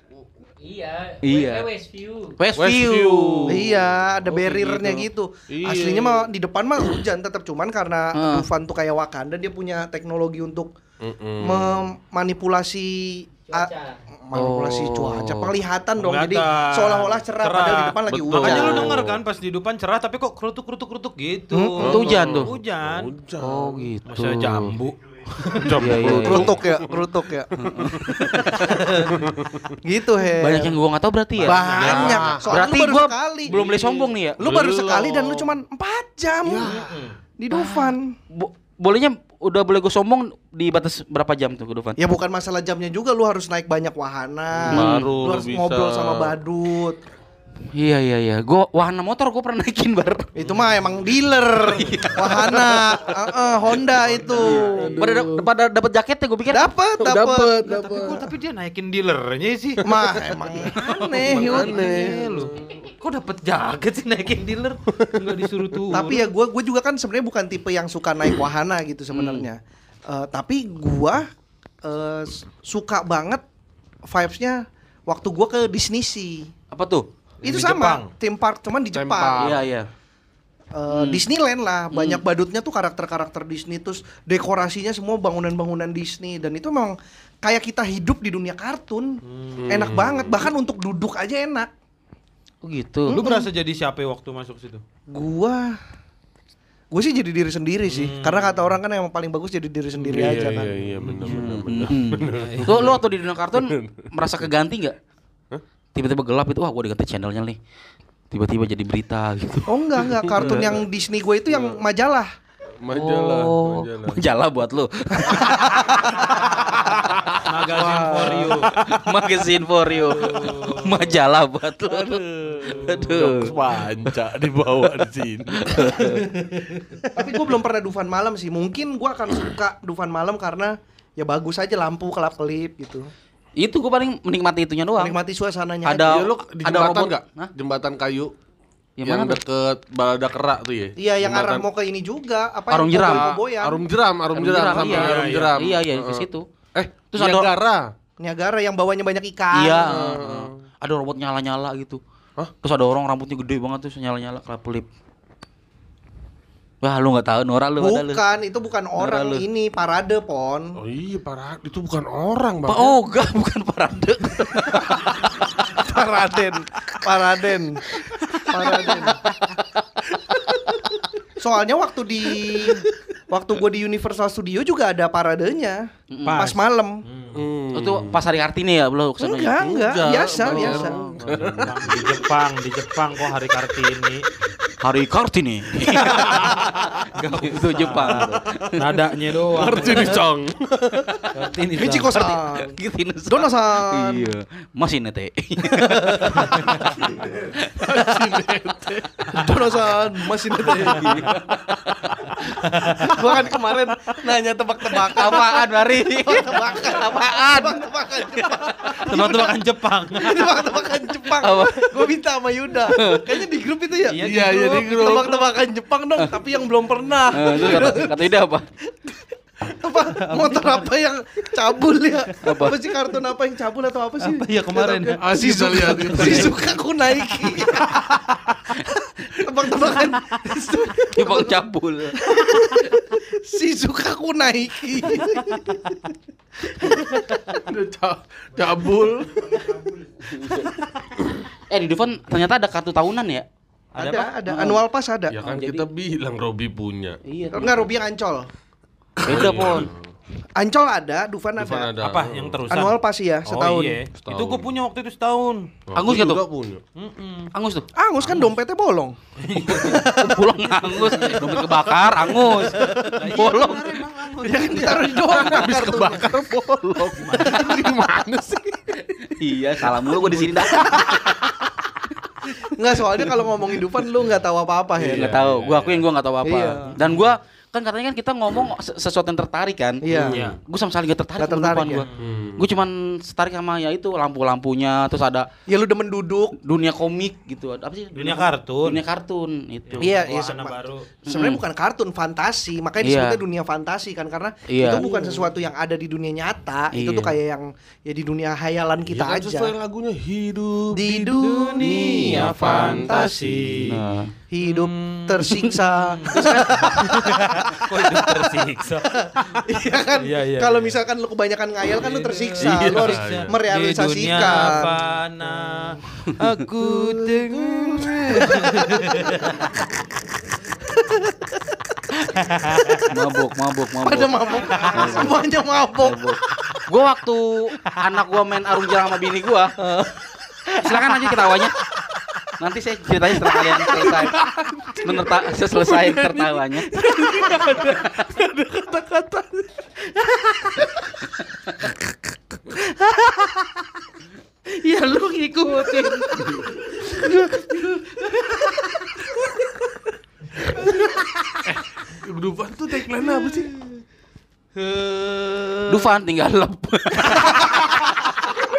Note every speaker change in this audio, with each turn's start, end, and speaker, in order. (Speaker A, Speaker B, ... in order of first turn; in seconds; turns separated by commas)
Speaker A: 0.6-2.4, Speaker B: 1.2-1.7, Speaker B: 2.4-3.6, Speaker C: 2.6-6.3, Speaker D: 3.5-10.7, Speaker B: 8.1-8.5, Speaker C: 11.0-11.8, Speaker D: 11.4-19.0, Speaker A: 13.5-13.9, Speaker B: 14.3-15.5, Speaker E: 16.0-23.1, Speaker C: 18.1-19.2, Speaker D: 21.5-21.9, Speaker C: 21.8-23.8, Speaker B: 21.8-22.5, Speaker B: 23.4-24.7, Speaker E: 24.1-26.1, Speaker C: 25.5-27.1, Speaker B: 25.8-26.6, Speaker D: 26.0-27.5, Speaker B: 27.6-28.8, Speaker C: 27.6-28.2, Speaker D: 28.4-29.1, Speaker C: 29.1-29.6, Speaker D: 29.8-30.8, Speaker B: 30.4-34.4, Speaker E: 31.4-32.4, Speaker D: 31.4-33.6, Speaker C: 31.8-32.7, Speaker E: 33.5-34.0, Speaker C: 34.4-35.5, Speaker D: 34.4-36.7, Speaker C: 36.4-36.9, Speaker E: 36.6-37.1, Speaker D: 37.4-38.1, Speaker B: 37.5-42.0, Speaker D: 42.0-47.0, Speaker C: 44.5-46.3, Speaker B: 44.7-45.4, Speaker B: 47.7-50.3, Speaker D: 50.3-55.0, Speaker B: 51.9-52.5, Speaker C: 52.2-53.0, Speaker C: 53.7-55.4, Speaker E: 54.5-54.8, Speaker B: 55.0-56.7, Speaker D: 56.5-57.7, Speaker C: 57.0-58.2, Speaker E: 57.6-66.3, Speaker D: 59.8-62.4, Speaker C: 61.1-62.6, Speaker C: 65.0-65.5, Speaker D: 65.9-71.3, Speaker B: 69.1-69.5, Speaker D: 71.8-73.4, Speaker D: 74.1-76.5, Speaker B: 76.7-77.1, Speaker E: 77.4-78.1, Speaker D: 77.4-79.6, Speaker C: 78.9-79.7, Speaker B: 79.4-79.9, Speaker D: 80.7-91.7, Speaker B: 80.9-81.2, Speaker B: 81.9-82.2, Speaker E: 89.2-89.9, Speaker C: 89.5-90.5, Speaker B: 92.6-93.3, Speaker E: 93.1-94.8, Speaker D: 93.1-93.5, Speaker D: 95.1-95.8, Speaker D: 96.9-100.7, Speaker E: 97.9-98.7, Speaker E: 100.0-101.4, Speaker C: 100.1-104.1, Speaker B: 101.2-105.0, Speaker E: 102.3-103.0, Speaker B: 105.9-107.6, Speaker B: 108.3-110.6, Speaker D: 109.7-112.3, Speaker C: 110.2-110.7, Speaker C: 111.5-111.8, Speaker C: 112.8-114.2, Speaker B: 112.9-117.2, Speaker E: 117.5-118.7, Speaker D: 117.7-118.7, Speaker B: 118.7-123.5, Speaker E: 119.9-121.2, Speaker C: 121.9-126.1, Speaker E: 122.6-123.6, Speaker B: 125.5-126.3, Speaker D: 127.1-133.1, Speaker B: 133.6-135.2, Speaker D: 135.0-136.2, Speaker B: 135.8-137.5, Speaker C: 136.0-138.3, Speaker B: 139.0-139.4, Speaker C: 139.0-141.6, Speaker D: 141.0-143.8, Speaker B: 142.7-143.3, Speaker C: 142.9-147.9, Speaker B: 144.3-146.5, Speaker E: 144.7-145.6, Speaker B: 147.1-147.5, Speaker D: 148.2-150.0, Speaker B: 149.5-152.0, Speaker C: 149.8-150.5, Speaker B: 152.6-154.8, Speaker B: 156.8-158.2, Speaker D: 157.8-160.8, Speaker B: 159.0-159.4, Speaker C: 160.8-163.0, Speaker B: 162.7-165.8, Speaker D: 165.6-167.8, Speaker B: 167.9-170.9, Speaker D: 168.4-169.2, Speaker D: 171.4-177.0, Speaker B: 172.4-172.8, Speaker B: 176.1-176.5, Speaker E: 176.3-177.5, Speaker C: 177.3-178.2, Speaker B: 177.7-179.7, Speaker D: 179.2-181.0, Speaker C: 179.6-182.2, Speaker B: 180.4-181.5, Speaker E: 181.2-184.3, Speaker B: 184.8-186.6, Speaker D: 185.9-186.4, Speaker C: 186.2-186.7, Speaker E: 187.0-190.2, Speaker B: 187.2-188.8, Speaker C: 189.5-191.3, Speaker E: 191.3-192.3, Speaker D: 191.8-194.3, Speaker B: 192.1-197.8, Speaker D: 195.7-196.7, Speaker C: 197.7-199.6, Speaker D: 199.3-201.2, Speaker B: 200.7-202.5, Speaker E: 202.6-203.1, Speaker D: 203.0-209.6, Speaker B: 204.9-209.4, Speaker E: 208.9-210.8, Speaker D: 210.1-218.3, Speaker B: 211.4-211.9, Speaker B: 212.9-213.4, Speaker E: 214.0-215.4, Speaker C: 214.2-215.3, Speaker B: 217.3-218.7, Speaker D: 218.9-228.2, Speaker E: 220.2-220.7, Speaker B: 222.4-222.8, Speaker E: 224.2-225.3, Speaker C: 225.2-226.6, Speaker E: 225.9-226.5, Speaker D: 229.3-231.6, Speaker B: 231.1-232.8, Speaker D: 232.2-237.5, Speaker C: 237.6-239.9, Speaker B: 240.2-240.7, Speaker B: 241.6-243.4, Speaker E: 243.9-244.3, Speaker D: 243.9-245.3, Speaker B: 244.5-244.8, Speaker C: 245.3-247.2, Speaker B: 245.4-245.9, Speaker B: 247.2-247.9, Speaker D: 247.5-248.5, Speaker C: 249.2-250.1, Speaker B: 249.2-249.9, Speaker D: 250.6-251.9, Speaker C: 251.6-252.6, Speaker E: 252.0-255.7, Speaker D: 252.7-254.0, Speaker C: 254.2-254.7, Speaker C: 255.9-256.8, Speaker B: 255.9-256.4, Speaker E: 256.9-257.5, Speaker B: 257.5-257.9, Speaker D: 257.9-260.6, Speaker E: 258.2-258.5, Speaker E: 259.4-260.1, Speaker B: 259.7-263.9, Speaker E: 260.8-261.4, Speaker C: 261.2-262.3, Speaker D: 262.4-263.5, Speaker E: 263.0-265.4, Speaker D: 264.4-266.3, Speaker C: 265.1-269.0, Speaker E: 267.1-267.9, Speaker B: 269.0-271.6, Speaker B: 272.4-272.7, Speaker D: 272.7-275.4, Speaker C: 275.0-276.1, Speaker B: 275.0-280.0, Speaker D: 276.4-277.0, Speaker D: 280.0-280.4, Speaker C: 280.1-280.5, Speaker E: 280.1-280.6, Speaker B: 280.6-282.1, Speaker D: 281.4-282.0, Speaker C: 282.2-282.7, Speaker B: 282.6-285.5, Speaker D: 285.6-286.6, Speaker B: 286.6-290.2, Speaker E: 288.1-289.0, Speaker E: 289.9-291.1, Speaker D: 290.0-299.7, Speaker B: 291.3-291.6, Speaker B: 293.0-293.4, Speaker B: 294.7-295.1, Speaker B: 296.9-297.3, Speaker C: 299.1-303.9, Speaker D: 300.9-303.8, Speaker E: 301.2-304.0, Speaker B: 303.8-304.3, Speaker D: 304.5-314.9, Speaker E: 304.6-309.6, Speaker B: 306.3-307.1, Speaker E: 310.2-310.9, Speaker E: 311.9-319.6, Speaker C: 312.6-313.5, Speaker D: 316.8-320.1, Speaker D: 320.7-323.1, Speaker E: 322.4-323.0, Speaker B: 323.1-324.4, Speaker D: 324.0-326.2, Speaker E: 324.6-325.0, Speaker B: 324.9-325.4, Speaker C: 325.0-325.2, Speaker B: 326.0-329.8, Speaker D: 329.8-331.0, Speaker B: 330.8-331.7, Speaker B: 332.6-334.4, Speaker C: 333.9-339.6, Speaker B: 335.0-338.2, Speaker E: 340.2-340.7, Speaker E: 342.9-343.8, Speaker E: 344.7-348.6, Speaker B: 346.3-346.8, Speaker C: 351.6-353.7, Speaker E: 354.7-356.1, Speaker B: 355.9-357.8